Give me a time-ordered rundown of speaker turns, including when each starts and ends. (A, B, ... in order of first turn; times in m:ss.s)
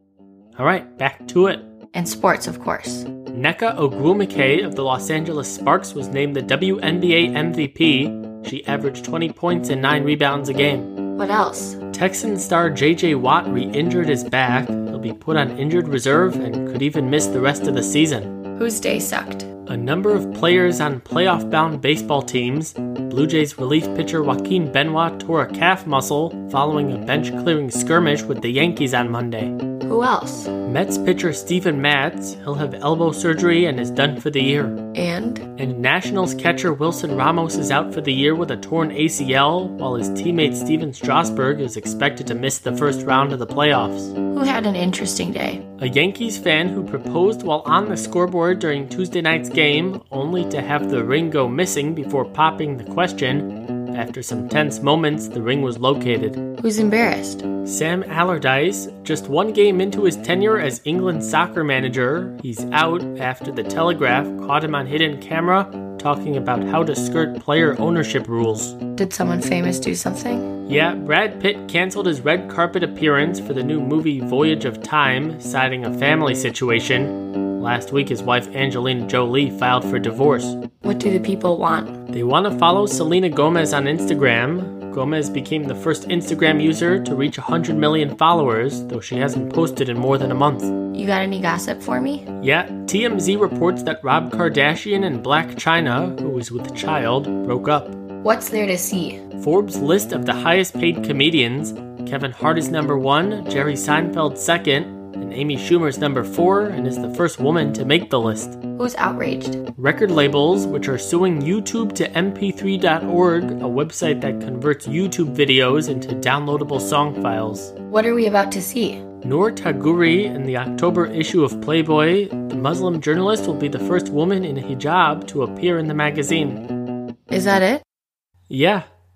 0:00.6-0:01.6 A
0:01.9-0:03.1 B
0:03.3-0:10.9 A
0:11.2-0:11.8 B
0:11.9-0:18.4 A
0:18.5-0:19.5 B
0:19.6-0:29.6 A
0:29.8-0:30.5 B
0:30.6-0:34.8 A
0:34.9-0:35.4 B
0:35.6-0:44.1 A
0:44.3-0:45.6 B
0:45.8-0:56.5 A
0:56.6-0:57.4 B
0:57.6-1:08.8 A
1:09.0-1:10.5 B
1:10.7-1:20.6 A
1:20.8-1:22.0 B
1:22.1-1:30.7 A
1:30.9-1:32.3 B
1:32.4-1:38.0 A
1:38.2-1:39.2 B
1:39.4-1:48.6 A
1:48.8-1:49.6 B
1:49.8-1:57.7 A
1:57.9-1:59.0 B
1:59.2-2:06.6 A
2:07.3-2:07.8 B
2:08.5-2:08.8 A